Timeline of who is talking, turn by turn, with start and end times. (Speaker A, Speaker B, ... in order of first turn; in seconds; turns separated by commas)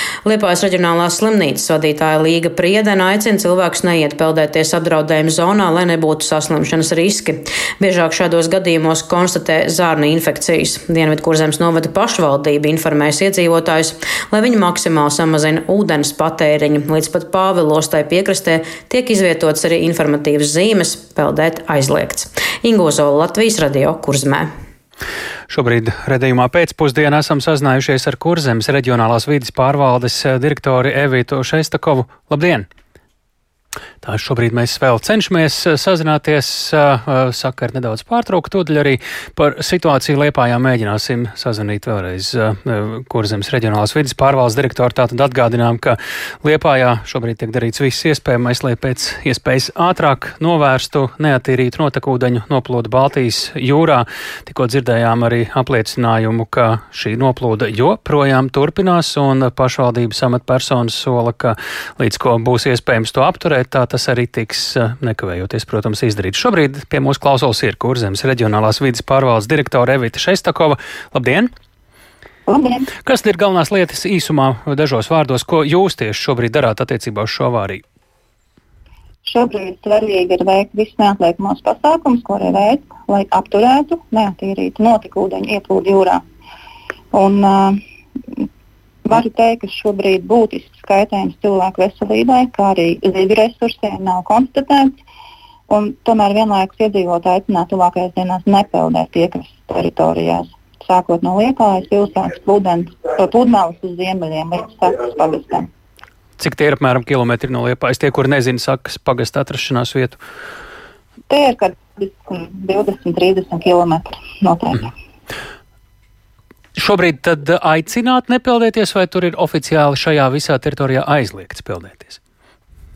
Speaker A: 0.3-24.5, Speaker B: 25.5-32.7, Speaker B: 34.0-71.5, Speaker C: 72.5-72.9, Speaker B: 73.0-77.8, Speaker C: 79.2-86.2, Speaker C: 87.1-87.8, Speaker C: 89.0-94.9, Speaker C: 95.7-105.7, Speaker B: 106.4-110.2, Speaker C: 111.3-114.9, Speaker B: 116.8-122.2